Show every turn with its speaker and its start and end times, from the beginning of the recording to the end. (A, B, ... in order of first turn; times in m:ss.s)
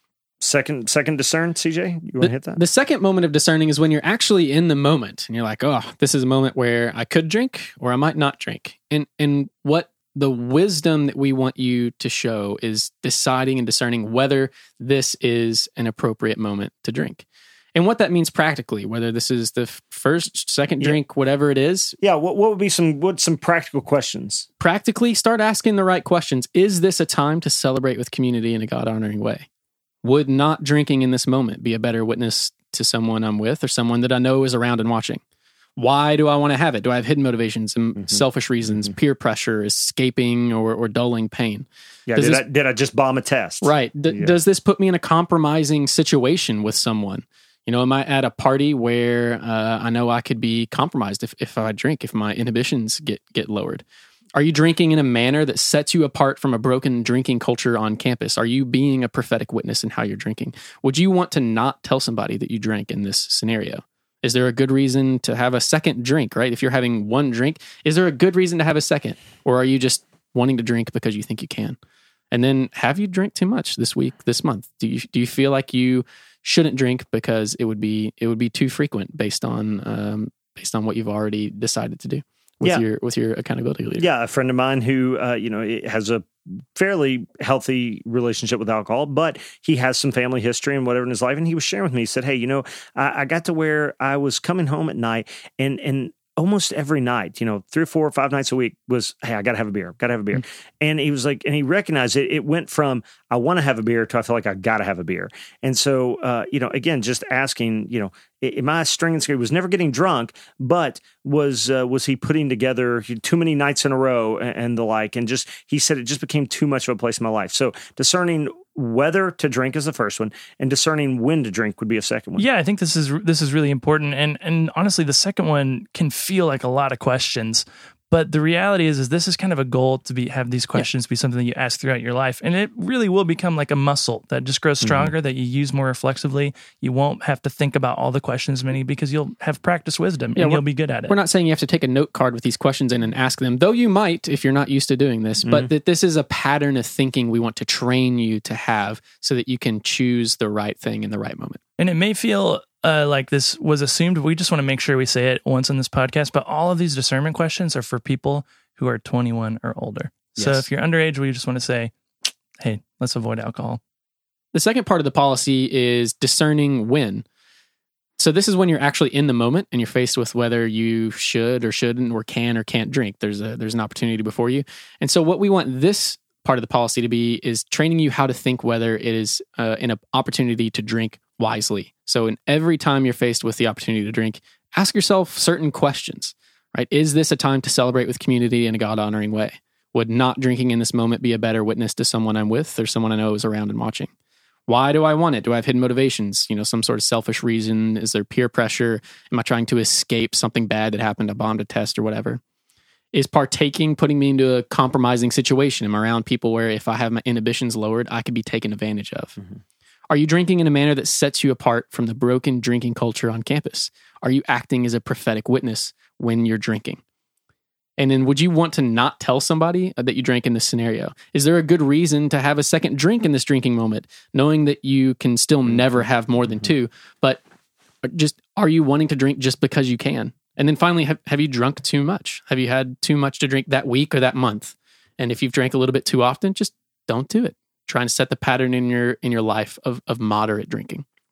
0:00.4-0:02.6 A
0:02.2-0:22.0 B
0:22.0-0:24.5 A
0:24.6-0:29.4 B
0:30.0-0:35.2 B
0:35.8-0:42.4 B
0:42.1-0:44.4 A
0:43.6-0:53.8 B
0:54.3-1:11.8 B
1:12.3-1:24.0 B
1:24.0-2:02.4 A
2:02.4-2:21.2 C
2:14.8-2:15.1 A
2:20.4-2:31.6 B
2:25.4-2:25.7 A
2:31.8-2:41.9 C
2:40.4-2:40.6 B
2:42.6-2:43.8 C
2:44.5-2:47.2 B
2:48.2-3:14.1 B
3:14.7-3:22.4 B
3:23.1-3:29.3 B
3:30.1-3:37.0 B
3:38.0-3:47.4 B
3:48.0-4:01.0 B